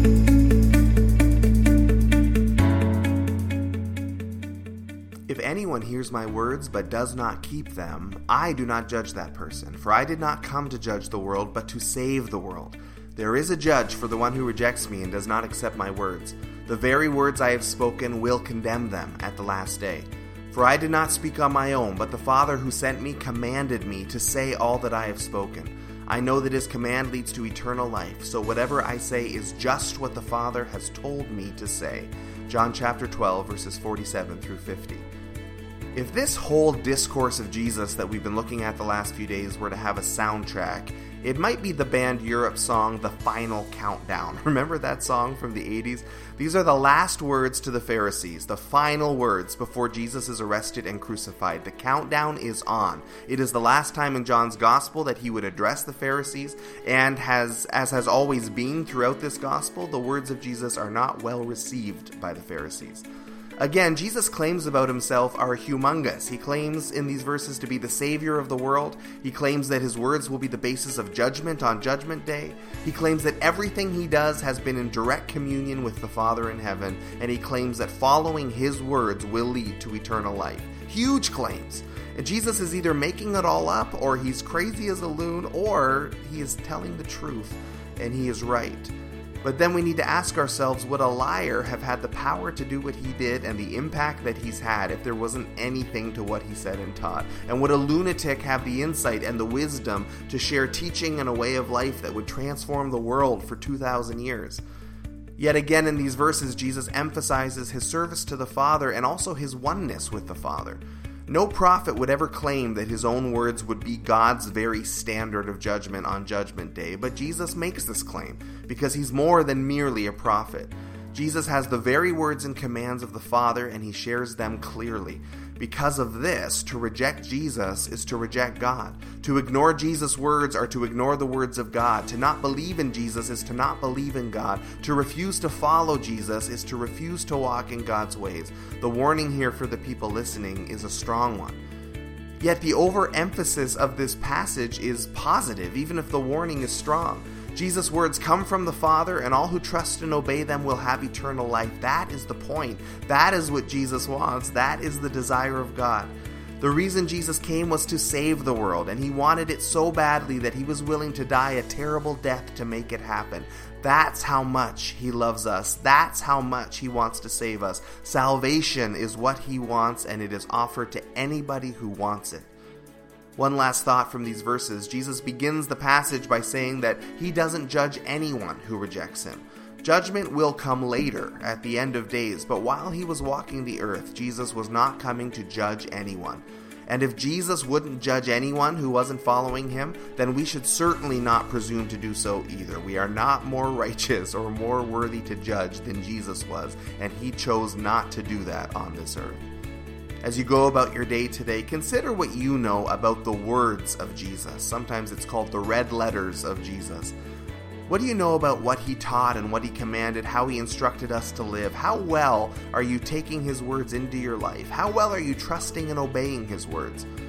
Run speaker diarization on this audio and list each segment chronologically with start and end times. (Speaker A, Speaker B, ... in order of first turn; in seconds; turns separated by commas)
Speaker A: 5.3-35.0, Speaker A: 35.9-63.0, Speaker A: 63.6-104.6, Speaker A: 105.4-141.6, Speaker A: 142.4-172.5, Speaker A: 173.4-199.4, Speaker A: 200.2-207.1, Speaker A: 207.9-217.1